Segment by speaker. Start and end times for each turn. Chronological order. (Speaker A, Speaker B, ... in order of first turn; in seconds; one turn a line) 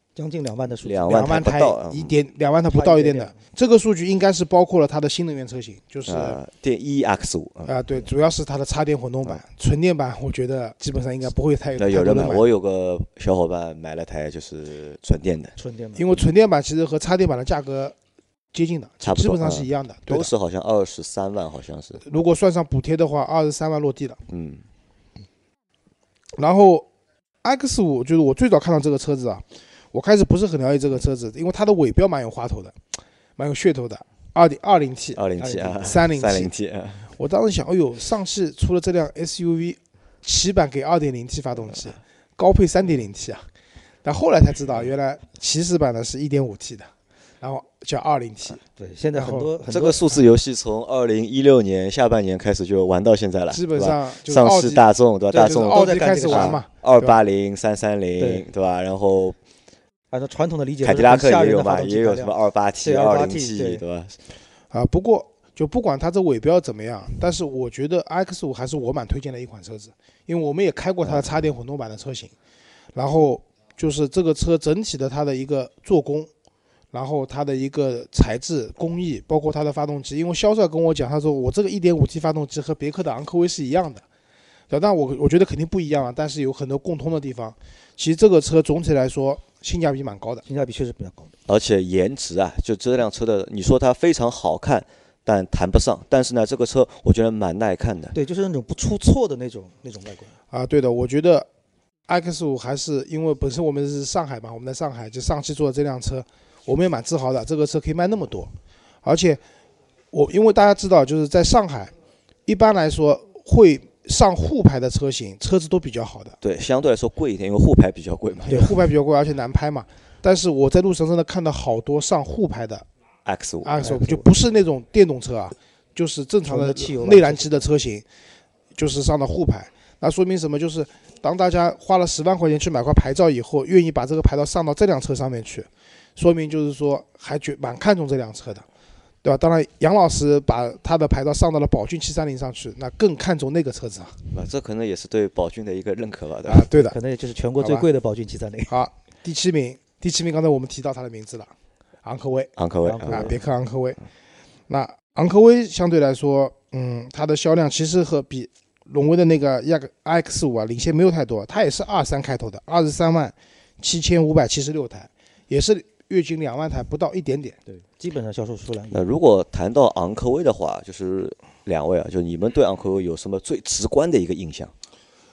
Speaker A: 0.1-1.3
Speaker B: 0.8-2.1
Speaker C: 1.1-6.4
Speaker A: 2.7-3.4
Speaker B: 6.0-7.7
Speaker C: 7.7-12.4
Speaker B: 11.8-15.6
Speaker A: 15.6-16.1
Speaker C: 16.0-17.9
Speaker C: 18.5-20.3
Speaker B: 19.0-22.0
Speaker C: 22.0-24.2
Speaker B: 24.3-24.6
Speaker C: 26.4-26.9
Speaker C: 27.4-32.7
Speaker C: 33.4-35.2
Speaker B: 35.1-37.1
Speaker A: 35.4-35.8
Speaker C: 35.8-36.5
Speaker C: 37.2-43.5
Speaker C: 44.0-46.9
Speaker C: 47.4-48.6
Speaker A: 48.8-50.1
Speaker C: 49.1-49.5
Speaker B: 49.7-59.4
Speaker C: 53.5-54.8
Speaker A: 55.3-56.6
Speaker C: 55.4-57.2
Speaker A: 58.2-58.4
Speaker A: 60.1-63.8
Speaker B: 60.8-64.2
Speaker C: 64.7-72.3
Speaker C: 72.9-76.3
Speaker C: 76.9-84.0
Speaker C: 84.7-90.4
Speaker A: 90.5-91.3
Speaker B: 91.5-98.2
Speaker A: 98.1-100.3
Speaker C: 100.5-101.5
Speaker C: 102.1-108.5
Speaker C: 109.0-109.4
Speaker C: 110.1-111.9
Speaker C: 112.5-116.4
Speaker B: 116.4-118.7
Speaker C: 118.4-122.8
Speaker B: 123.2-124.0
Speaker C: 123.6-128.0
Speaker A: 123.8-124.2
Speaker A: 126.4-127.7
Speaker C: 128.8-138.7
Speaker C: 139.2-144.2
Speaker B: 144.3-146.7
Speaker C: 146.4-146.9
Speaker A: 146.8-148.7
Speaker C: 147.6-147.8
Speaker C: 148.7-151.5
Speaker C: 152.0-152.5
Speaker B: 152.6-153.3
Speaker A: 152.8-153.4
Speaker C: 153.1-154.0
Speaker C: 154.7-167.6
Speaker A: 167.7-169.1
Speaker B: 168.9-174.7